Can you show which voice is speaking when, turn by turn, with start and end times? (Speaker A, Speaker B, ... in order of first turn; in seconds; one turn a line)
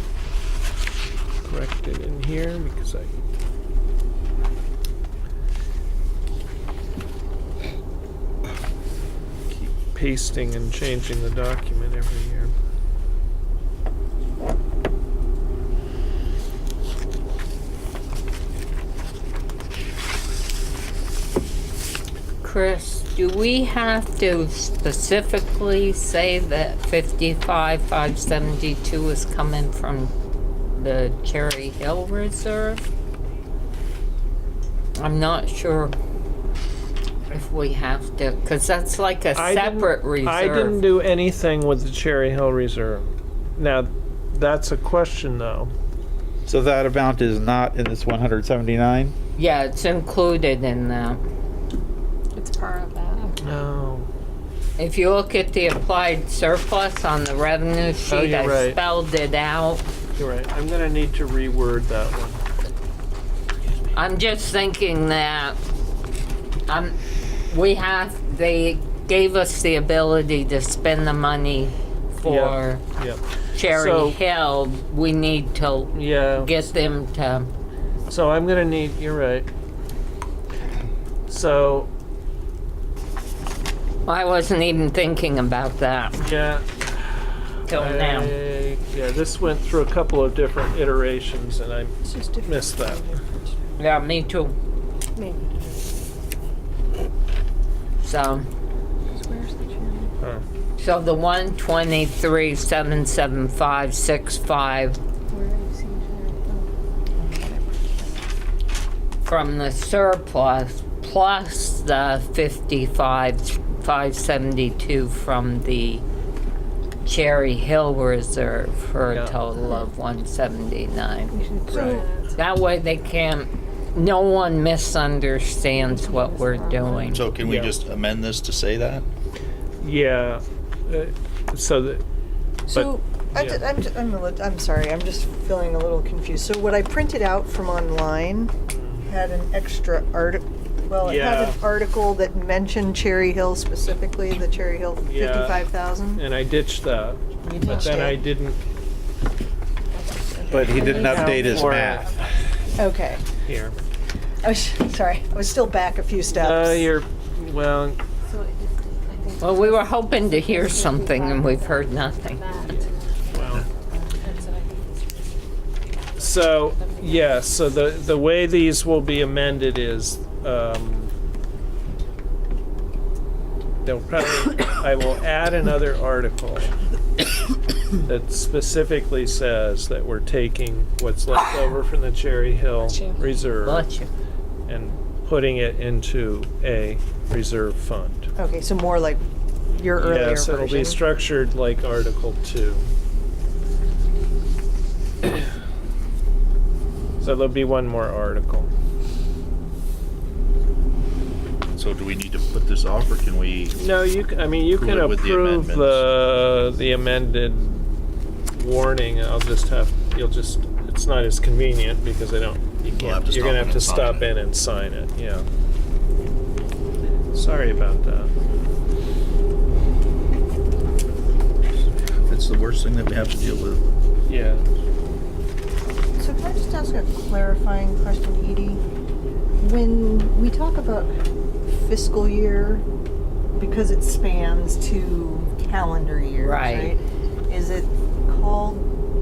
Speaker A: 1.4-3.1
Speaker A: 9.5-12.5
Speaker B: 22.4-30.1
Speaker B: 30.8-32.9
Speaker B: 35.0-35.9
Speaker B: 37.3-40.8
Speaker A: 39.3-45.7
Speaker C: 46.5-49.1
Speaker B: 49.4-51.2
Speaker D: 52.3-53.4
Speaker A: 53.4-54.1
Speaker B: 54.8-59.9
Speaker A: 58.1-58.8
Speaker A: 60.1-62.4
Speaker B: 63.9-65.6
Speaker B: 66.7-66.9
Speaker B: 67.5-72.8
Speaker A: 72.2-74.2
Speaker B: 73.5-77.5
Speaker A: 75.9-76.5
Speaker A: 78.1-79.5
Speaker A: 81.3-81.9
Speaker B: 84.0-86.3
Speaker A: 86.2-93.1
Speaker B: 87.7-88.3
Speaker E: 92.0-93.7
Speaker B: 93.8-94.5
Speaker E: 95.2-95.8
Speaker B: 98.0-98.5
Speaker E: 99.1-100.1
Speaker B: 100.8-105.0
Speaker D: 105.3-106.7
Speaker E: 107.2-108.3
Speaker B: 109.2-116.0
Speaker B: 117.0-121.3
Speaker A: 119.1-119.4
Speaker E: 121.3-122.0
Speaker A: 121.7-122.0
Speaker B: 122.3-127.3
Speaker D: 126.0-127.0
Speaker F: 127.1-129.0
Speaker C: 127.2-128.4
Speaker A: 127.4-127.7
Speaker A: 129.8-132.0
Speaker E: 132.7-138.5
Speaker A: 132.7-133.6
Speaker A: 138.7-139.1
Speaker E: 139.0-146.2
Speaker A: 141.0-141.6
Speaker A: 145.0-148.6
Speaker E: 147.4-148.2
Speaker D: 149.9-151.7
Speaker C: 150.5-152.1
Speaker E: 150.5-151.3
Speaker A: 150.8-152.2
Speaker E: 152.8-153.2
Speaker A: 153.4-153.8
Speaker E: 154.4-156.9
Speaker A: 156.3-158.0
Speaker D: 158.3-163.7
Speaker B: 159.4-162.4
Speaker A: 162.7-163.6
Speaker D: 164.2-165.4
Speaker D: 166.2-167.6
Speaker A: 166.2-171.1
Speaker A: 173.8-176.7
Speaker A: 178.0-183.8
Speaker D: 182.8-183.4
Speaker B: 183.6-184.1
Speaker A: 184.7-188.3
Speaker E: 188.4-191.0
Speaker A: 190.0-192.9
Speaker A: 197.2-198.7
Speaker F: 201.8-203.7
Speaker A: 203.8-207.8
Speaker F: 204.8-206.0
Speaker A: 208.5-215.5
Speaker F: 213.0-214.3
Speaker A: 217.3-218.3
Speaker F: 222.3-223.8
Speaker A: 224.3-224.6
Speaker E: 226.2-228.8
Speaker E: 229.6-231.1
Speaker E: 231.7-232.8
Speaker E: 233.5-238.9
Speaker B: 236.4-236.9